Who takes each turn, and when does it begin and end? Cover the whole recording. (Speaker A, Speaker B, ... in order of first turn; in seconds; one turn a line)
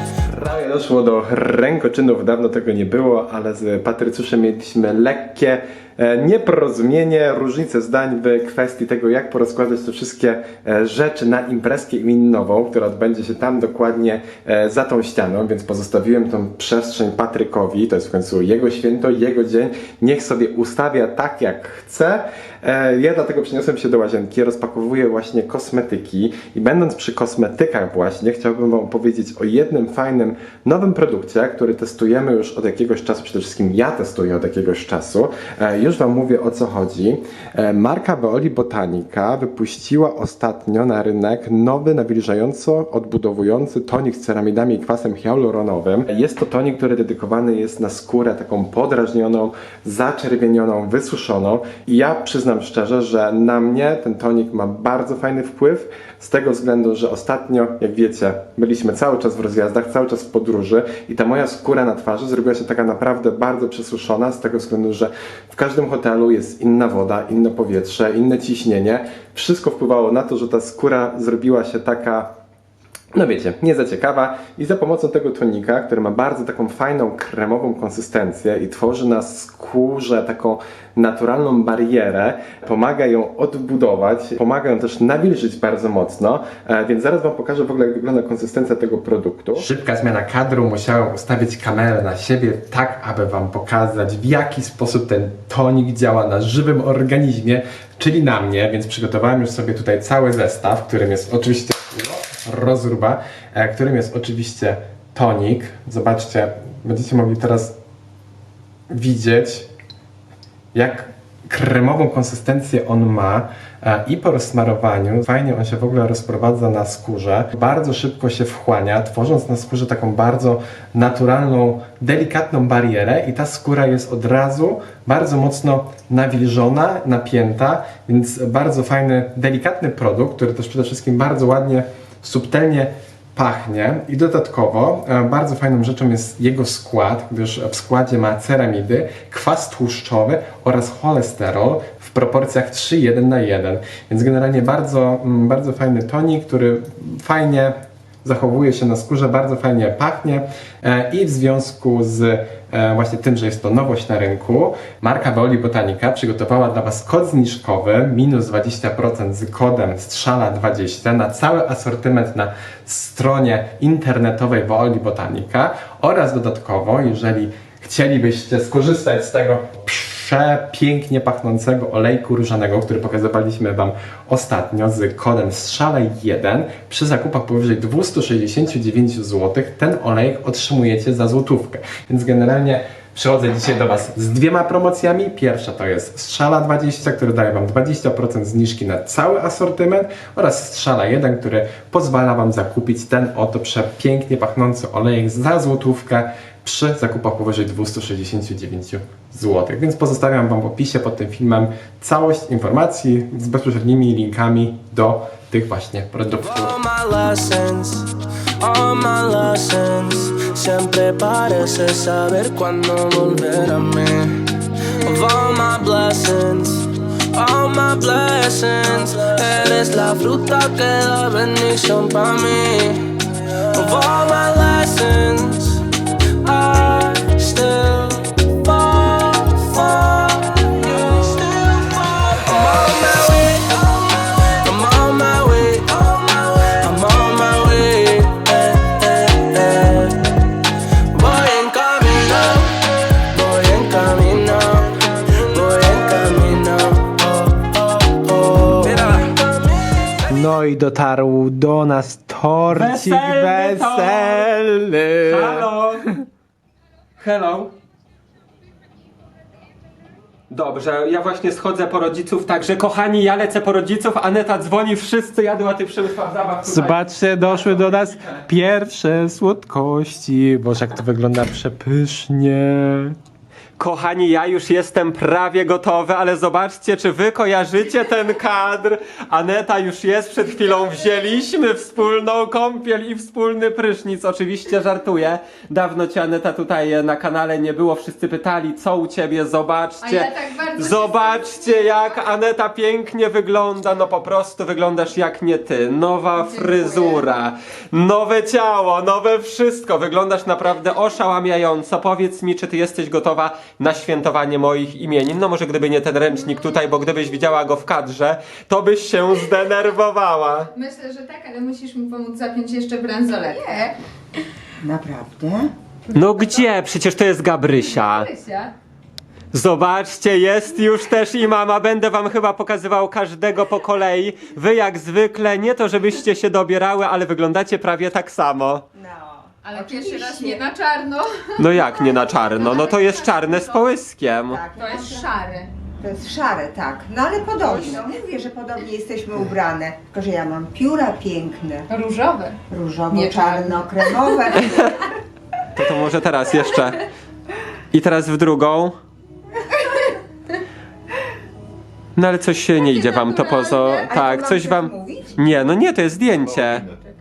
Speaker A: 0.3-72.3
Speaker A: 73.1-107.8
Speaker A: 108.9-109.7
Speaker A: 110.7-206.8
Speaker B: 206.4-240.5
Speaker B: 241.1-250.3
Speaker A: 250.3-256.2
Speaker C: 252.7-254.5
Speaker C: 255.3-256.1
Speaker C: 257.2-257.7
Speaker C: 260.5-268.4
Speaker A: 266.6-273.1
Speaker C: 273.8-310.7
Speaker D: 290.0-292.2
Speaker D: 296.4-297.3
Speaker D: 310.7-314.0
Speaker E: 314.8-315.7
Speaker C: 316.1-318.3
Speaker D: 317.9-318.7
Speaker C: 319.5-328.9
Speaker E: 329.0-330.7
Speaker D: 329.6-333.8
Speaker C: 331.6-334.6
Speaker E: 334.5-335.3
Speaker D: 334.8-335.7
Speaker E: 336.0-341.9
Speaker D: 337.6-338.0
Speaker D: 341.9-344.6
Speaker E: 342.7-344.9
Speaker C: 344.6-344.9
Speaker C: 345.8-347.0
Speaker C: 347.9-349.0
Speaker C: 352.2-356.9
Speaker D: 352.8-354.1
Speaker E: 354.1-355.3